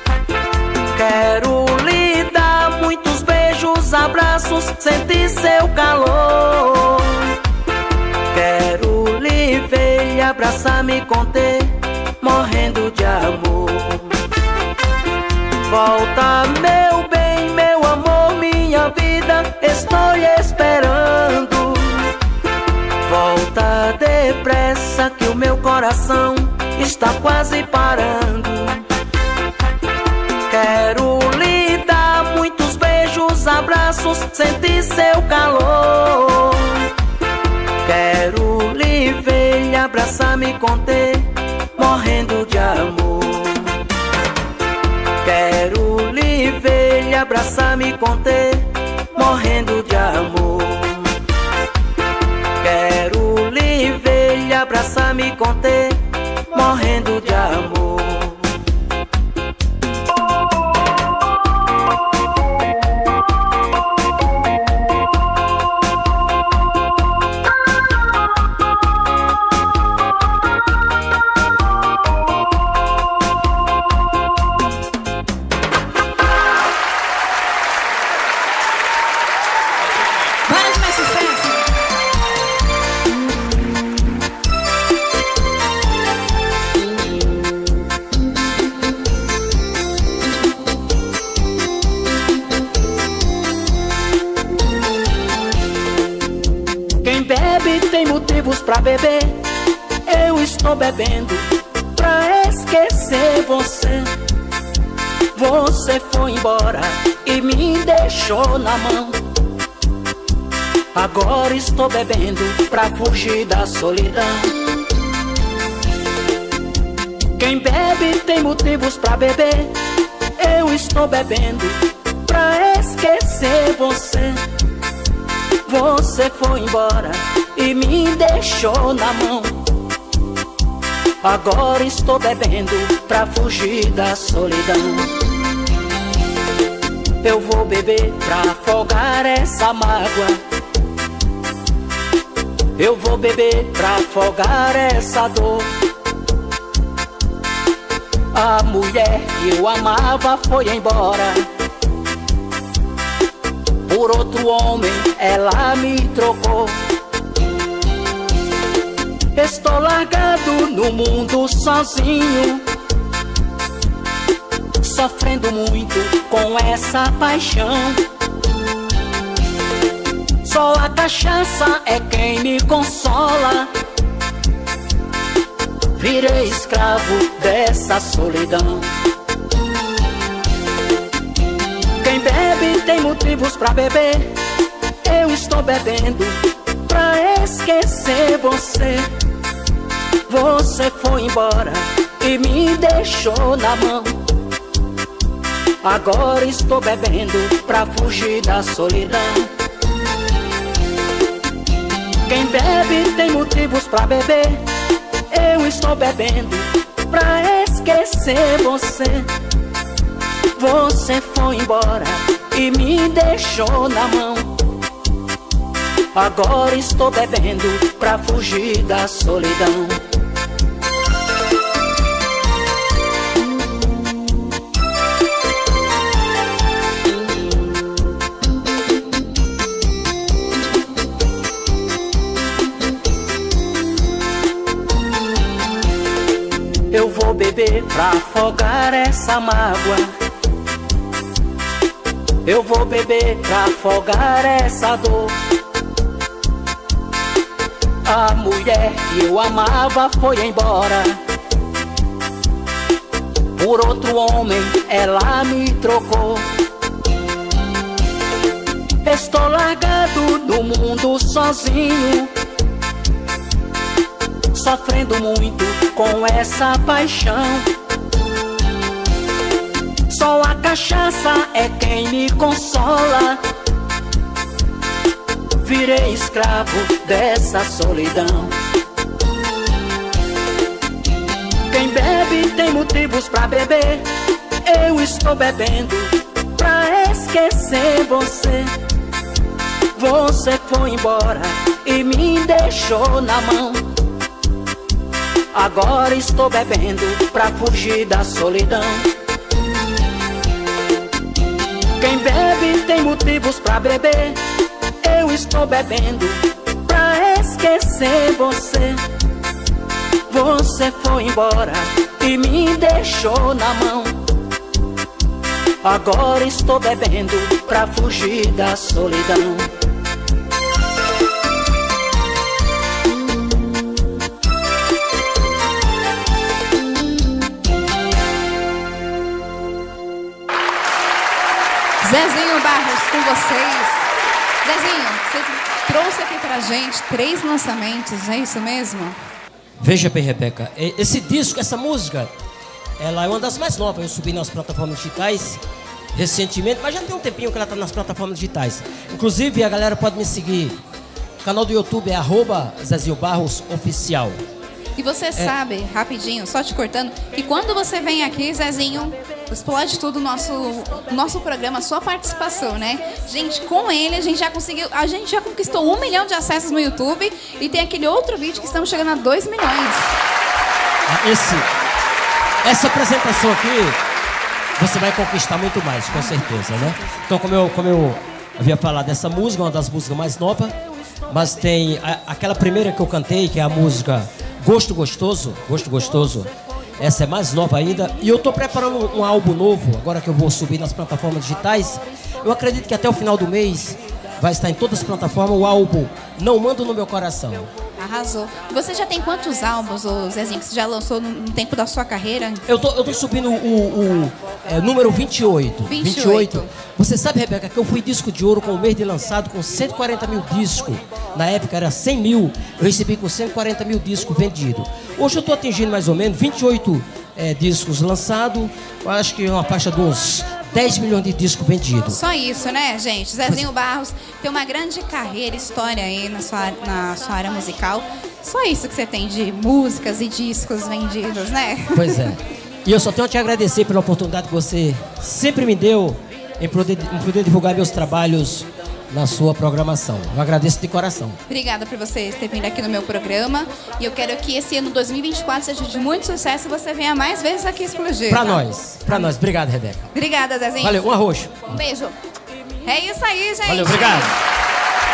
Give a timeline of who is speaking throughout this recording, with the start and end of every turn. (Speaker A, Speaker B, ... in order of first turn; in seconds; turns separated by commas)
Speaker A: 0.9-7.4, Speaker A: 8.3-14.2, Speaker A: 15.7-22.2, Speaker A: 23.1-28.9, Speaker A: 30.5-36.9, Speaker A: 37.8-43.8, Speaker A: 45.2-51.2, Speaker A: 52.6-58.6, Speaker B: 80.5-81.6, Speaker A: 97.0-99.4, Speaker A: 100.1-104.1, Speaker A: 105.3-109.2, Speaker A: 110.9-114.6, Speaker A: 117.4-119.7, Speaker A: 120.4-124.4, Speaker A: 125.7-129.7, Speaker A: 131.2-135.2, Speaker A: 137.2-140.4, Speaker A: 142.8-145.8, Speaker A: 148.3-151.5, Speaker A: 153.9-156.8, Speaker A: 159.3-162.7, Speaker A: 164.8-168.0, Speaker A: 170.4-173.7, Speaker A: 175.9-178.9, Speaker A: 182.0-184.4, Speaker A: 185.0-189.1, Speaker A: 190.3-194.2, Speaker A: 195.8-199.5, Speaker A: 202.3-204.6, Speaker A: 205.3-209.3, Speaker A: 210.6-214.6, Speaker A: 216.1-220.0, Speaker A: 236.9-240.1, Speaker A: 242.4-245.4, Speaker A: 248.1-251.2, Speaker A: 253.6-256.5, Speaker A: 259.0-262.3, Speaker A: 264.5-267.7, Speaker A: 270.1-273.4, Speaker A: 275.6-278.6, Speaker A: 281.7-284.1, Speaker A: 284.6-288.7, Speaker A: 290.0-293.9, Speaker A: 295.5-299.1, Speaker A: 302.0-304.4, Speaker A: 305.0-309.0, Speaker A: 310.3-314.2, Speaker A: 315.8-319.7, Speaker B: 332.0-334.1, Speaker B: 334.6-339.2, Speaker C: 339.8-342.3, Speaker C: 343.0-345.6, Speaker C: 346.1-350.8, Speaker C: 351.4-354.4, Speaker B: 355.0-370.1, Speaker C: 371.1-371.7, Speaker C: 372.6-374.0, Speaker C: 374.8-380.8, Speaker C: 381.3-397.7, Speaker B: 398.0-402.6, Speaker C: 402.7-422.2, Speaker B: 405.9-406.7, Speaker B: 422.1-432.3, Speaker C: 431.9-441.4, Speaker B: 441.5-449.3, Speaker C: 448.3-450.1, Speaker B: 450.1-451.0, Speaker C: 450.8-451.8, Speaker B: 451.7-452.1, Speaker B: 452.8-454.4, Speaker C: 453.7-454.3